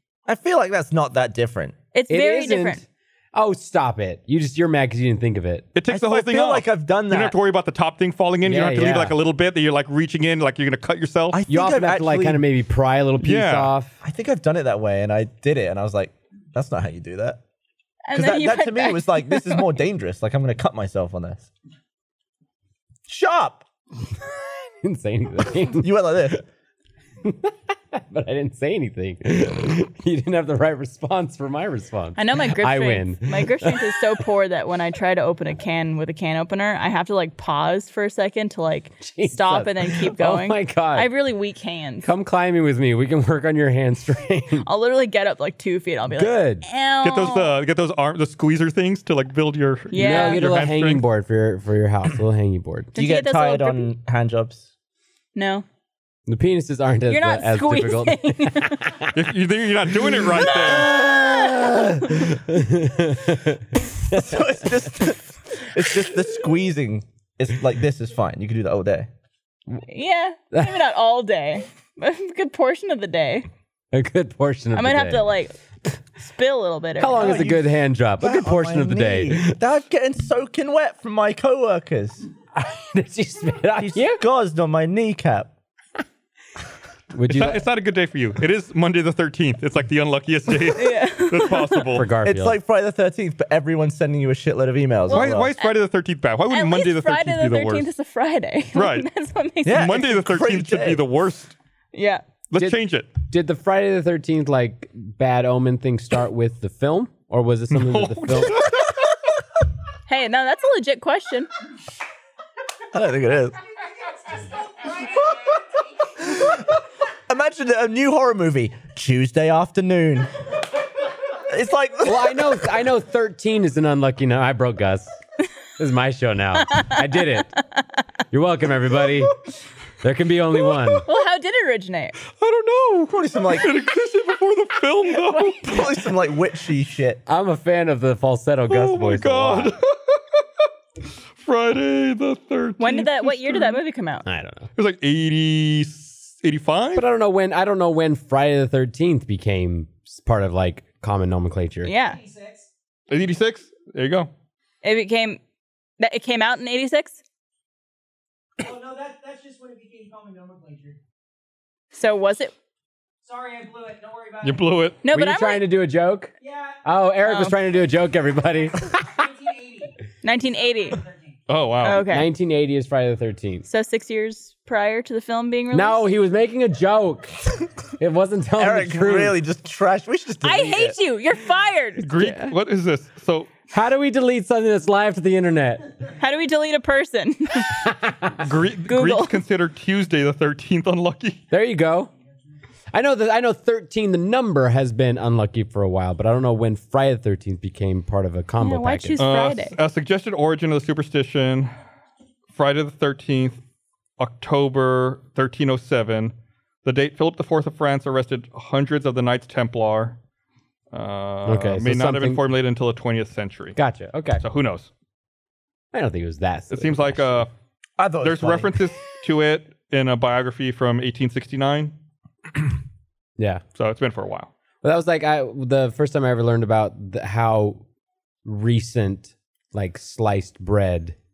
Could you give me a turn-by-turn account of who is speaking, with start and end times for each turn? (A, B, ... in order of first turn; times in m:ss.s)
0:00.3-0:01.8 A
0:01.9-0:02.8 B
0:02.1-0:05.7 C
0:05.8-0:11.4 D
0:05.9-0:07.4 A
0:08.4-0:09.2 C
0:11.3-0:12.4 A
0:11.5-0:14.0 C
0:13.2-0:13.7 D
0:14.0-0:17.4 A
0:18.0-0:19.7 B
0:18.1-0:21.5 A
0:23.1-0:23.6 A
0:24.8-0:25.9 C
0:25.7-0:26.4 A
0:27.2-0:34.0 C
0:32.2-0:42.1 B
0:39.0-0:41.1 C
0:42.0-0:44.7 C
0:44.6-0:47.5 B
0:46.1-0:46.6 C
0:47.0-0:51.0 D
0:49.9-0:50.5 B
0:49.9-0:52.9 C
0:52.9-0:53.9 B
0:53.0-0:54.7 A
0:55.4-0:55.6 B
0:56.3-0:59.1 C
0:57.1-0:59.0 B
0:59.1-1:01.0 D
1:00.4-1:04.6 C
1:04.1-1:09.1 A
1:09.8-1:13.5 B
1:13.9-1:15.2 C
1:14.7-1:15.6 B
1:16.2-1:17.4 B
1:17.0-1:19.6 C
1:17.2-1:22.3 A
1:22.6-1:24.2 C
1:23.8-1:25.5 A
1:27.1-1:27.6 C
1:27.3-1:32.1 D
1:30.8-1:32.0 B
1:31.9-1:32.6 C
1:32.2-1:35.5 A
1:35.1-1:35.7 B
1:35.1-1:37.9 D
1:36.5-1:39.9 B
1:38.8-1:39.1 D
1:39.6-1:41.0 A
1:39.7-1:41.5 D
1:41.9-1:42.2 B
1:42.5-1:43.1 D
1:42.5-1:48.7 C
1:47.7-1:48.8 D
1:50.1-1:51.5 B
1:52.9-1:53.6 A
1:56.2-1:56.6 A
1:57.3-2:00.3 A
2:01.4-2:02.6 A
2:02.0-2:05.1 C
2:05.8-2:07.5 C
2:08.3-2:09.4 C
2:10.0-2:11.1 C
2:11.0-2:12.2 B
2:12.4-2:16.1 D
2:13.1-2:13.7 A
2:15.1-2:17.2 A
2:17.3-2:19.8 C
2:18.7-2:20.4 D
2:21.4-2:23.8 D
2:22.8-2:24.2 B
2:24.2-2:24.7 C
2:24.8-2:27.0 D
2:27.0-2:31.9 C
2:31.8-2:32.2 B
2:31.9-2:32.7 E
2:33.1-2:34.3 D
2:34.8-2:35.4 B
2:36.0-2:37.2 B
2:38.6-2:41.0 E
2:41.9-2:42.5 B
2:43.2-2:44.9 E
2:44.4-2:45.0 D
2:45.0-2:45.7 B
2:45.1-2:46.3 C
2:46.4-2:46.9 E
2:46.8-2:49.3 C
2:47.2-2:47.6 B
2:48.4-2:50.0 E
2:50.2-2:51.0 B
2:50.6-2:51.4 E
2:51.5-2:52.1 D
2:51.8-2:52.3 B
2:52.1-2:53.7 C
2:53.7-2:56.1 B
2:55.7-2:57.4 C
2:58.0-2:59.4 C
2:58.6-3:01.0 A
3:00.4-3:02.1 B
3:02.0-3:03.5 D
3:02.2-3:02.5 C
3:03.7-3:06.0 C
3:06.2-3:07.9 B
3:07.8-3:08.5 C
3:08.4-3:11.4 D
3:08.9-3:09.4 B
3:11.5-3:12.1 C
3:12.9-3:19.2 C
3:18.6-3:19.8 B
3:19.2-3:21.7 D
3:22.5-3:23.6 D
3:24.2-3:26.3 D
3:26.8-3:30.2 D
3:30.9-3:33.8 D
3:31.4-3:32.5 C
3:33.8-3:34.4 C
3:34.4-3:34.9 D
3:35.9-3:37.5 C
3:36.7-3:37.5 D
3:38.0-3:38.7 A
3:38.2-3:41.9 D
3:43.4-3:43.6 C
3:43.8-3:44.5 D
3:44.8-3:47.8 C
3:48.4-3:51.2 C